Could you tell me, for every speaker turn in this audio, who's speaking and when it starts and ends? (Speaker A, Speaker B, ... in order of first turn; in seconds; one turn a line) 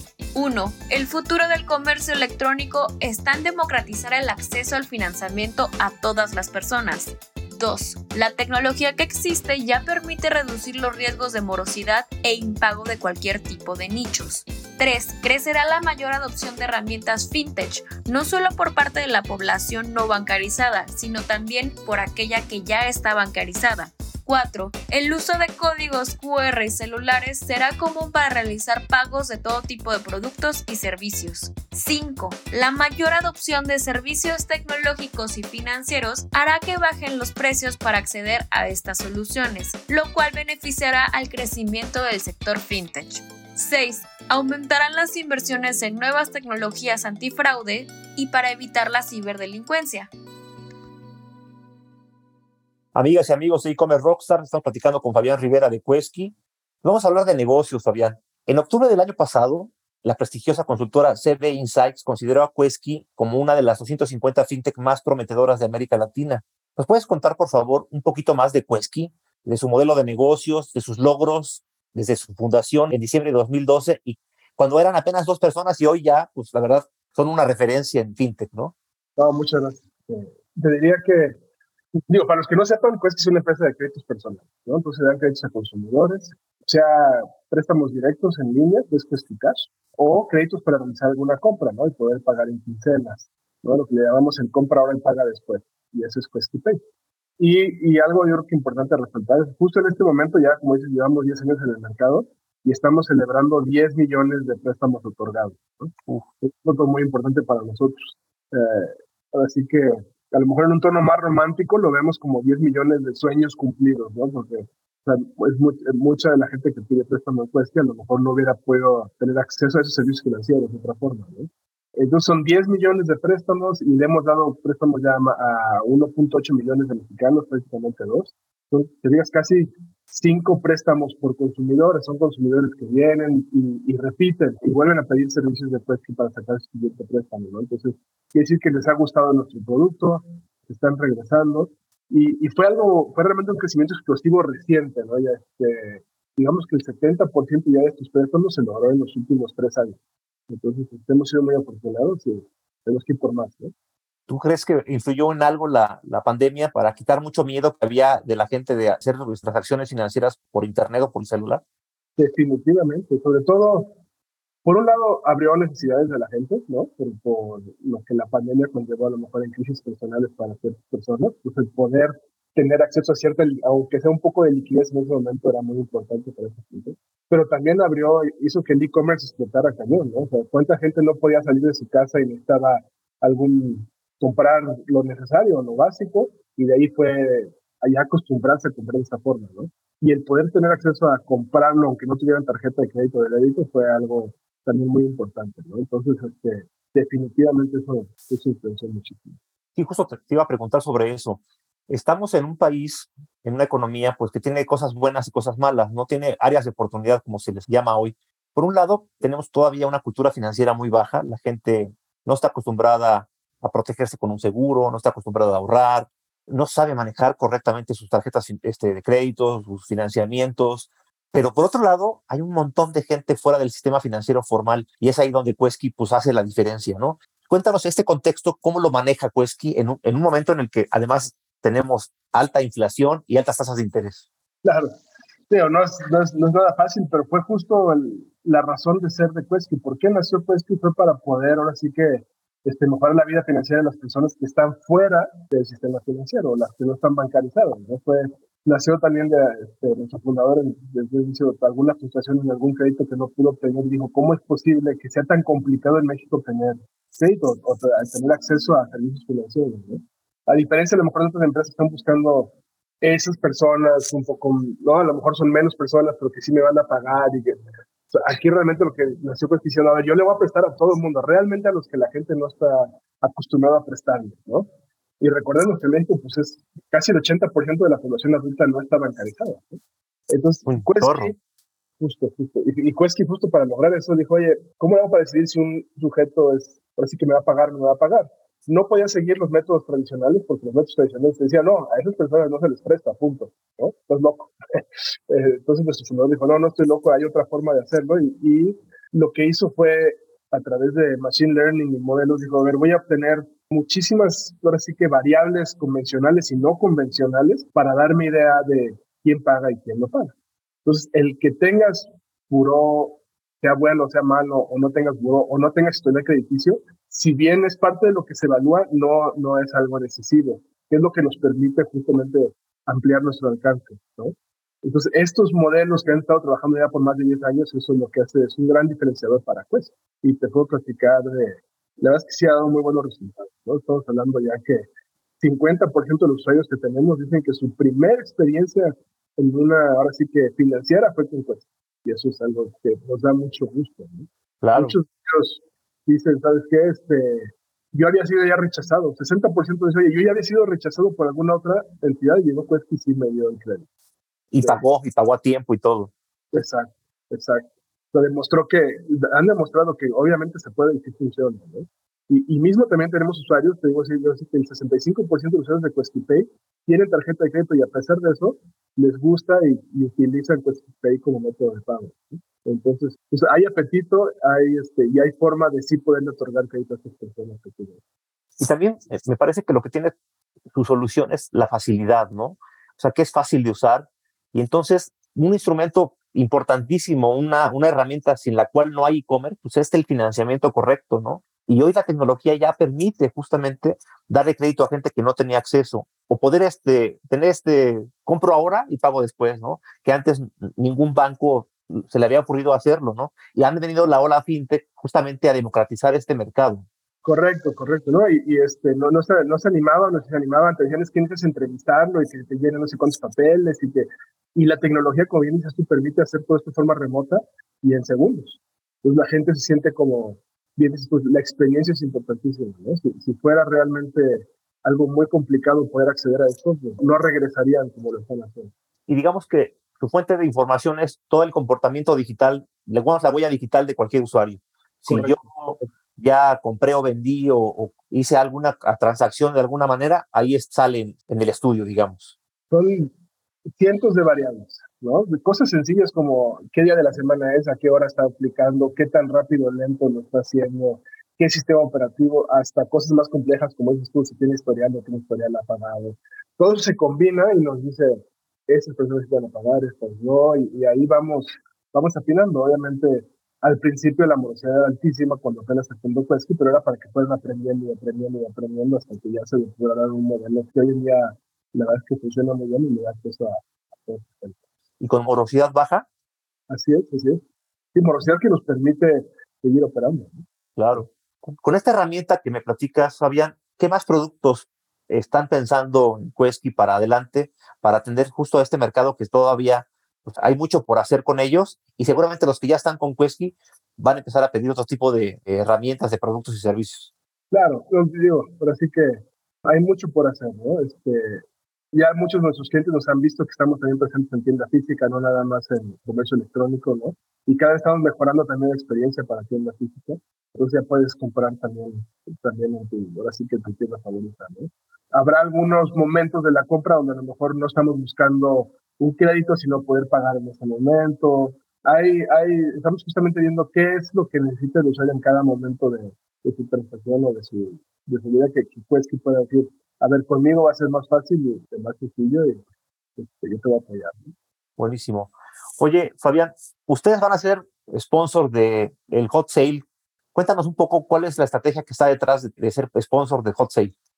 Speaker A: 0.3-50.1
Speaker B: 53.0-78.7
Speaker C: 79.2-81.4
Speaker C: 82.1-96.8
Speaker C: 97.4-150.0
Speaker C: 150.5-153.7
Speaker B: 154.3-161.6
Speaker C: 162.2-163.9
Speaker C: 164.7-199.4
Speaker B: 199.8-234.2
Speaker C: 234.6-235.0
Speaker C: 235.5-274.7
Speaker C: 275.2-281.4
Speaker B: 280.7-281.3
Speaker C: 282.0-310.3
Speaker C: 310.9-334.9
Speaker C: 335.4-353.9
Speaker B: 344.6-345.0
Speaker B: 354.5-356.1
Speaker C: 356.5-378.0
Speaker B: 378.6-380.1
Speaker B: 380.7-406.9
Speaker C: 407.2-428.7
Speaker B: 429.1-442.3
Speaker C: 435.1-435.9
Speaker C: 442.7-443.1
Speaker C: 443.8-474.6
Speaker B: 475.0-476.1
Speaker C: 476.7-477.4
Speaker C: 477.9-481.0
Speaker B: 480.8-497.1
Speaker C: 497.5-532.6
Speaker C: 533.2-534.4
Speaker B: 534.8-543.9